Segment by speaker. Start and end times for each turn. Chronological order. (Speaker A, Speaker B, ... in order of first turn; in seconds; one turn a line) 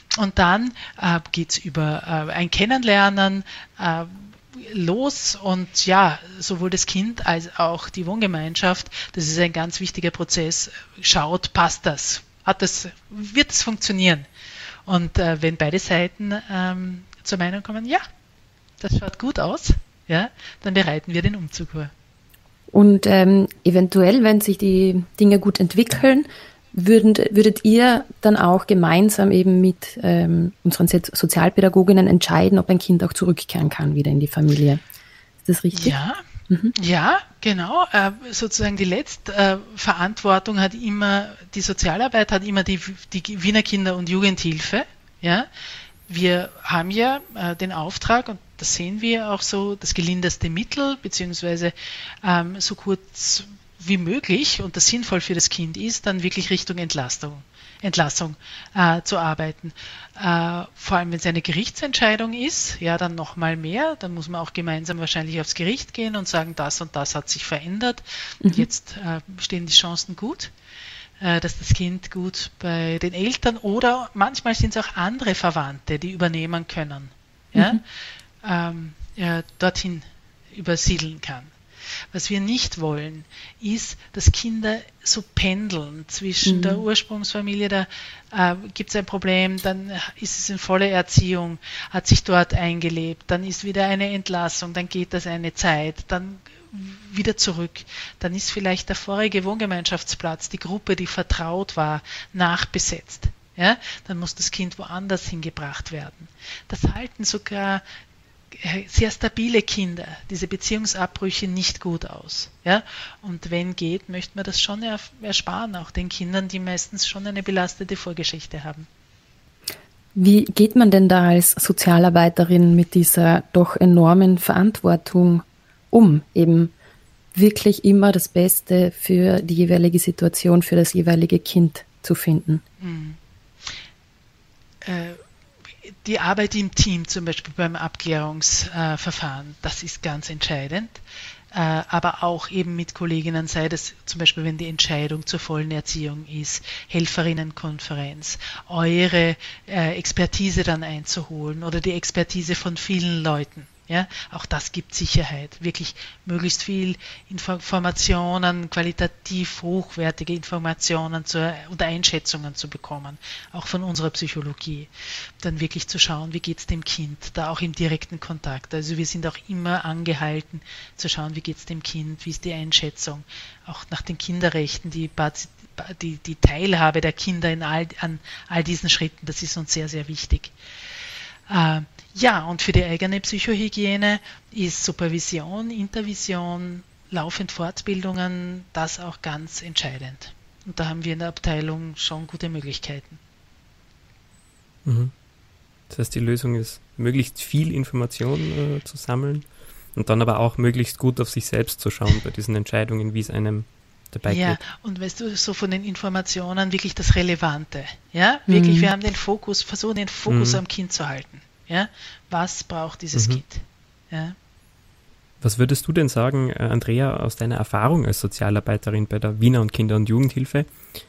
Speaker A: 0.2-14.2
Speaker A: 14.9-18.0
Speaker A: 18.8-21.9
Speaker B: 22.7-34.8
Speaker B: 35.4-36.0
Speaker A: 35.7-36.2
Speaker A: 36.7-45.5
Speaker A: 46.1-70.5
Speaker B: 68.4-68.7
Speaker A: 71.2-77.8
Speaker B: 77.5-77.8
Speaker A: 78.4-81.5
Speaker A: 82.1-107.8
Speaker B: 86.4-86.8
Speaker A: 108.5-118.9
Speaker B: 120.1-126.7
Speaker B: 127.3-132.6
Speaker A: 132.8-133.2
Speaker A: 134.8-135.2
Speaker A: 135.8-141.0
Speaker A: 141.5-164.9
Speaker A: 165.4-180.5
Speaker A: 181.5-193.2
Speaker C: 194.8-195.1
Speaker C: 195.9-204.6
Speaker A: 204.2-214.3
Speaker B: 208.5-208.9
Speaker C: 210.3-210.6
Speaker C: 213.1-213.4
Speaker C: 215.4-220.7